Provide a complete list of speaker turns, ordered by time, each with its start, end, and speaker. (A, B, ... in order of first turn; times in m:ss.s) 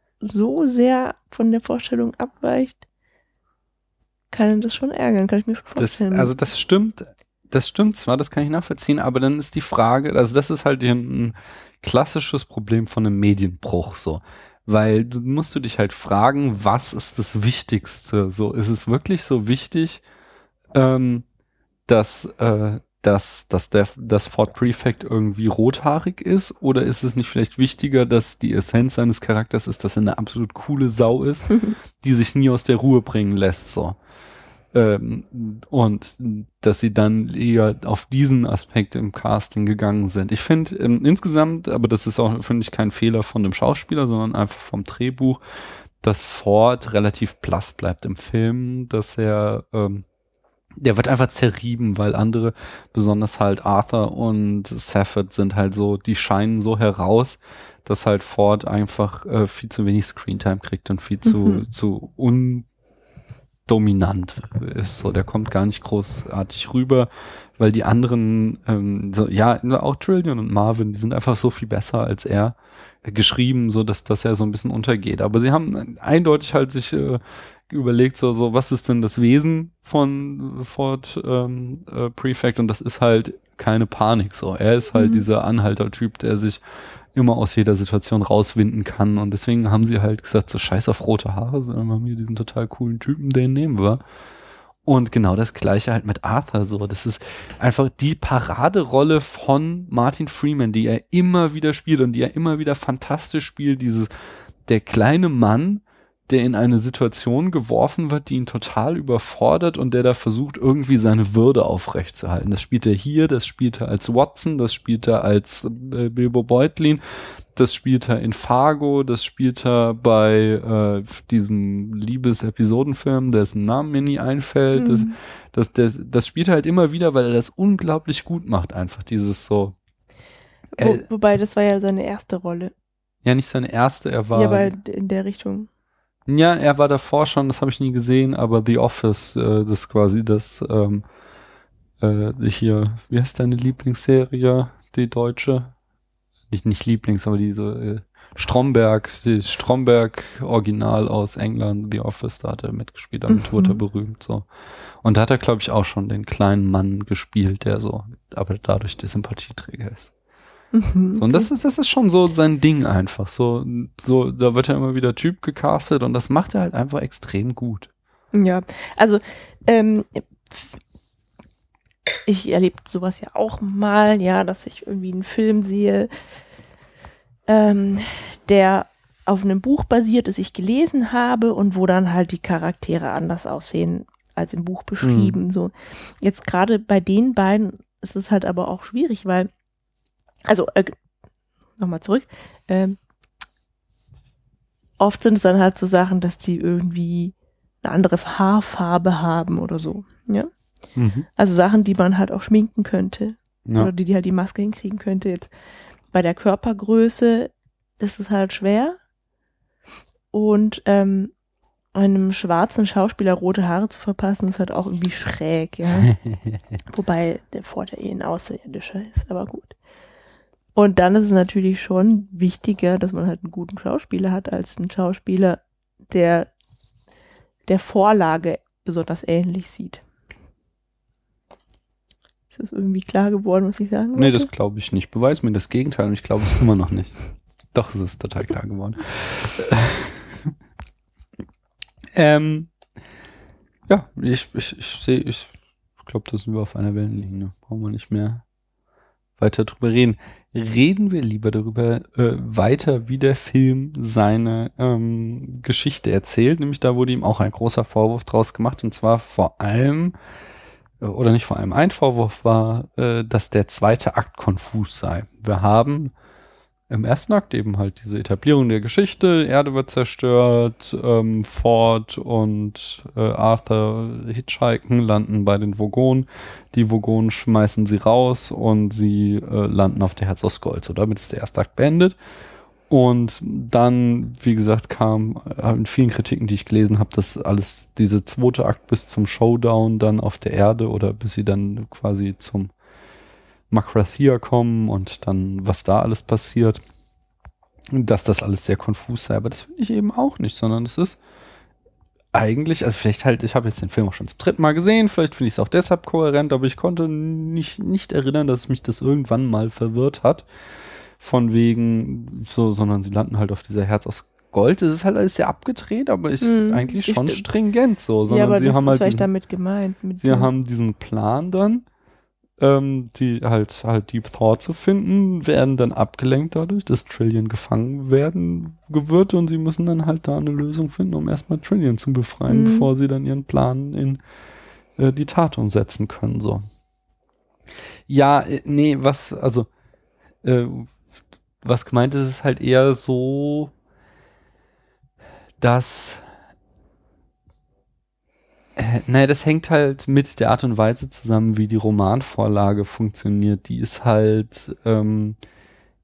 0:00.2-0:02.8 A
0:04.3-0:06.3 A
0:05.8-0:20.0 B
0:20.7-0:21.2 B
0:21.9-0:34.0 B
0:34.7-0:45.4 B
0:46.0-0:50.0 B
0:50.8-1:02.7 B
1:01.2-1:01.7 A
1:03.7-1:26.6 B
1:24.9-1:25.2 A
1:27.1-1:34.0 B
1:34.8-2:09.8 B
2:04.8-2:05.2 A
2:10.8-2:12.7 A
2:10.8-2:11.0 B
2:13.2-2:14.8 B
2:14.3-2:15.7 A
2:16.3-2:21.0 B
2:22.0-2:25.7 B
2:26.5-2:34.5 B
2:33.3-2:33.8 A
2:35.0-2:40.1 B
2:40.7-2:41.5 A
2:41.1-2:47.9 B
2:48.3-2:50.8 A
2:52.3-2:56.1 A
2:57.5-3:09.5 A
3:05.0-3:05.4 B
3:10.5-3:11.0 A
3:11.8-3:13.0 A
3:15.0-3:20.5 A
3:21.0-3:21.3 B
3:21.4-3:25.5 A
3:23.7-3:23.9 B
3:26.1-3:29.0 A
3:30.3-3:31.3 A
3:31.9-3:36.1 A
3:36.1-3:36.6 B
3:36.9-3:39.8 A
3:40.8-3:46.5 A
3:47.7-3:50.0 A
3:52.5-3:54.5 A
3:54.2-3:57.2 B
3:57.7-4:00.5 B
4:02.2-4:02.7 B
4:03.9-4:08.4 B
4:09.4-4:20.2 B
4:21.0-4:26.1 B
4:26.9-4:42.2 B
4:42.9-4:52.7 B
4:53.7-4:56.8 B
4:57.9-5:01.2 B
5:02.3-5:10.5 B
5:11.2-5:19.3 B
5:16.4-5:17.5 A
5:18.3-5:20.5 A
5:20.2-5:21.9 B
5:22.6-5:34.2 B
5:32.5-5:32.9 A
5:35.0-5:36.7 B
5:38.1-5:39.7 B
5:40.4-5:40.9 B
5:41.6-5:43.7 B
5:45.6-5:46.2 B
5:48.8-5:55.4 B